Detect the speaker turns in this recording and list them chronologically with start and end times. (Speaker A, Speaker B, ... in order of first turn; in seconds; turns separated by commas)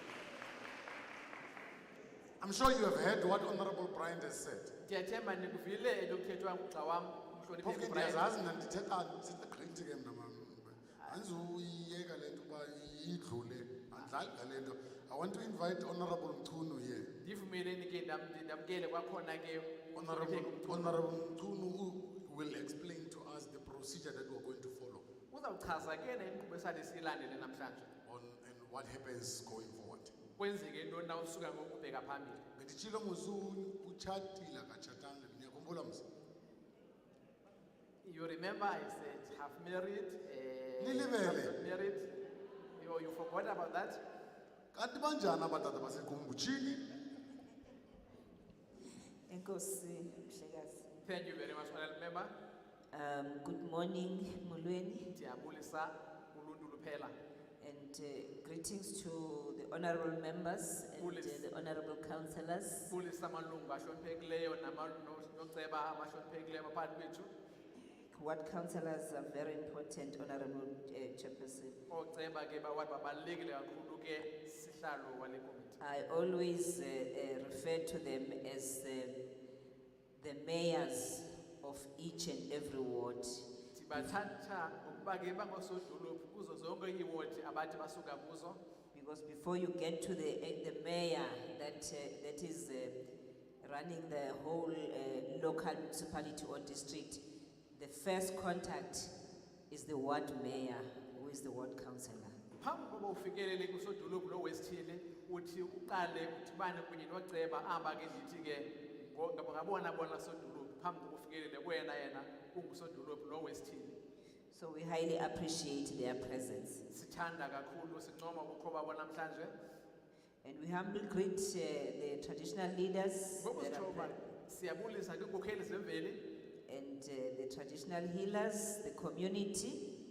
Speaker A: 2.4-4.7, Speaker B: 4.8-8.3, Speaker A: 7.6-17.1, Speaker B: 17.2-21.0, Speaker A: 19.9-25.0, Speaker B: 25.3-27.9, Speaker A: 28.1-30.1, Speaker B: 30.4-32.4, Speaker A: 32.5-36.0, Speaker B: 38.0-42.1, Speaker A: 40.8-41.5, Speaker B: 42.8-44.0, Speaker A: 44.7-46.8, Speaker C: 49.3-51.0, Speaker B: 51.0-52.3, Speaker C: 52.9-55.1, Speaker B: 55.1-57.1, Speaker C: 57.6-62.9, Speaker B: 61.0-61.4, Speaker B: 62.9-67.3, Speaker C: 68.1-71.8, Speaker B: 71.9-75.8, Speaker C: 75.8-79.2, Speaker C: 80.2-84.0, Speaker B: 83.7-88.6, Speaker C: 88.9-93.0, Speaker C: 93.6-97.2, Speaker C: 97.7-99.1, Speaker C: 99.7-102.4, Speaker B: 102.6-114.0, Speaker C: 114.5-116.8, Speaker B: 116.9-119.5, Speaker C: 120.4-124.2, Speaker B: 123.4-126.2, Speaker C: 126.7-129.8